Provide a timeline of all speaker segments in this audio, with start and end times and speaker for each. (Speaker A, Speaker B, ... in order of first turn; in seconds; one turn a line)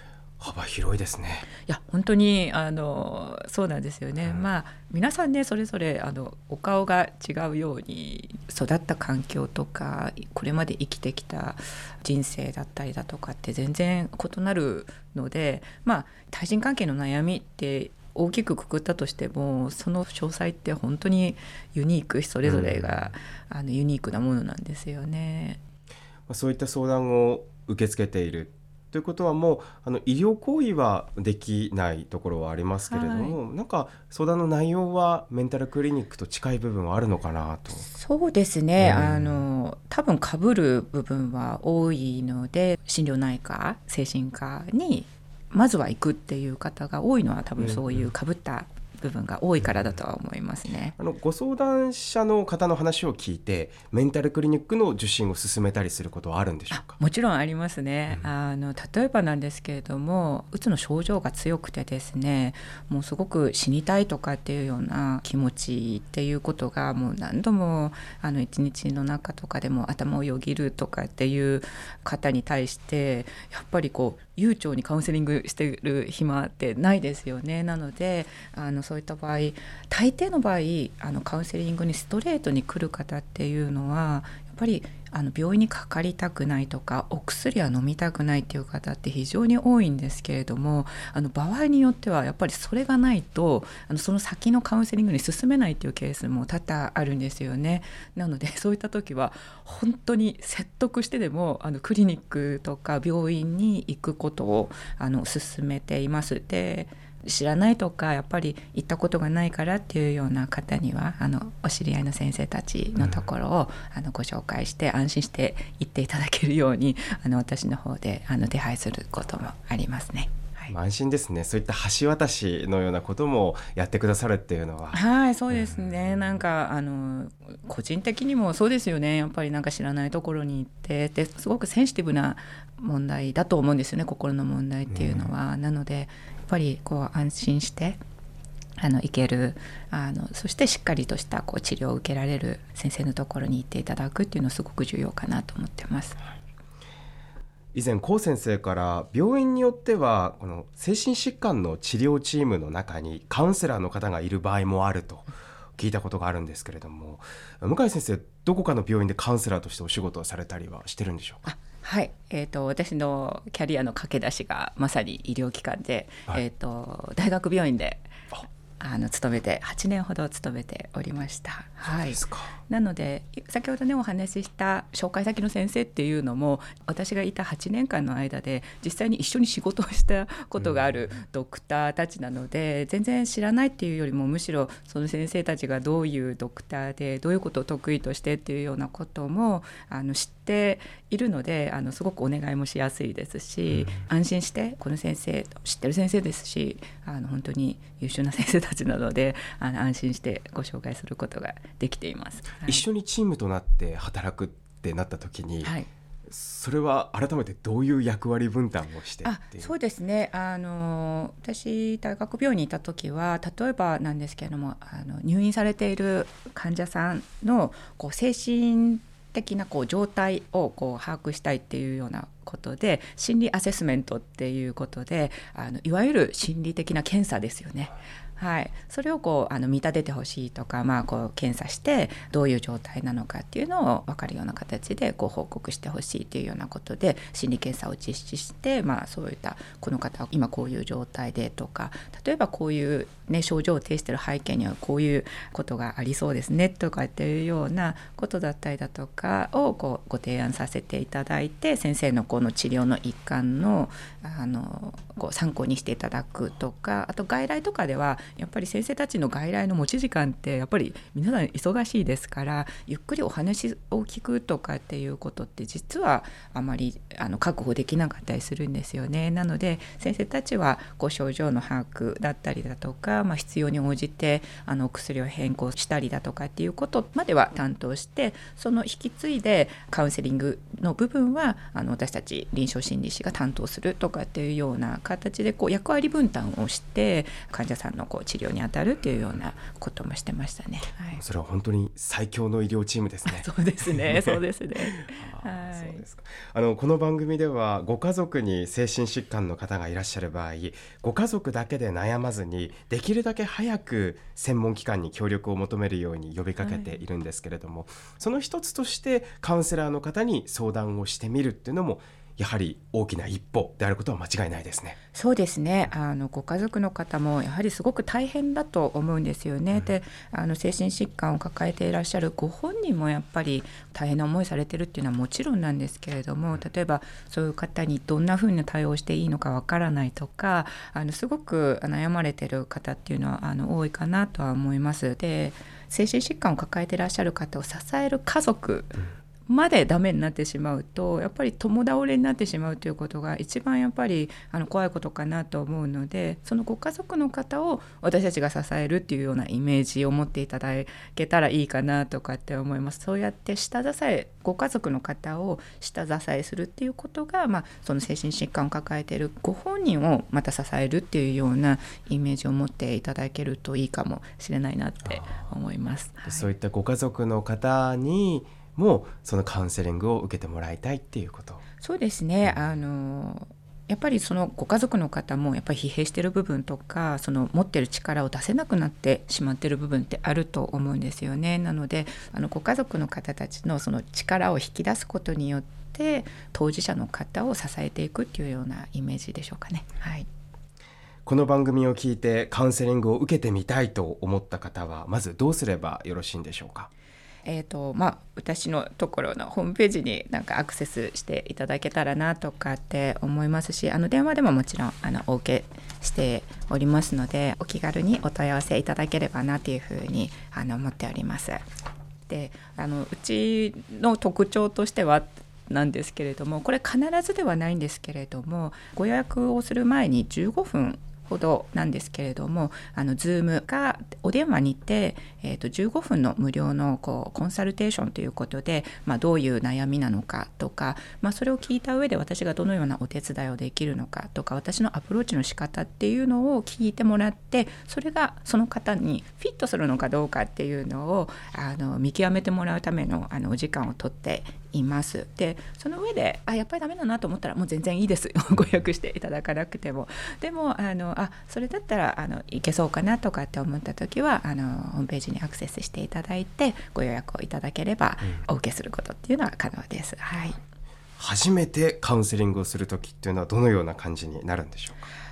Speaker A: 0.4-1.5
Speaker B: 1.6-25.6
Speaker A: 22.4-23.0
Speaker A: 26.3-37.9
Speaker B: 32.9-33.4
Speaker B: 37.8-51.0
Speaker A: 38.8-39.5
Speaker A: 47.6-48.0
Speaker A: 51.0-56.9
Speaker B: 56.7-120.7
Speaker A: 120.7-125.0
Speaker B: 124.9-138.0
Speaker A: 134.9-135.3
Speaker B: 138.8-146.2
Speaker A: 147.7-155.2
Speaker A: 155.8-161.4
Speaker B: 161.4-168.1
Speaker B: 168.8-202.8
Speaker A: 172.0-172.6
Speaker A: 202.7-205.8
Speaker B: 205.6-205.9
Speaker A: 206.3-209.7
Speaker B: 209.2-291.2
Speaker A: 291.2-294.4
Speaker B: 293.2-296.0
Speaker A: 295.1-314.9
Speaker B: 306.6-307.0
Speaker B: 315.1-366.5
Speaker A: 366.2-371.6
Speaker B: 371.8-390.3
Speaker A: 391.2-396.9
Speaker B: 397.4-411.6
Speaker B: 412.3-460.6
Speaker A: 461.2-465.1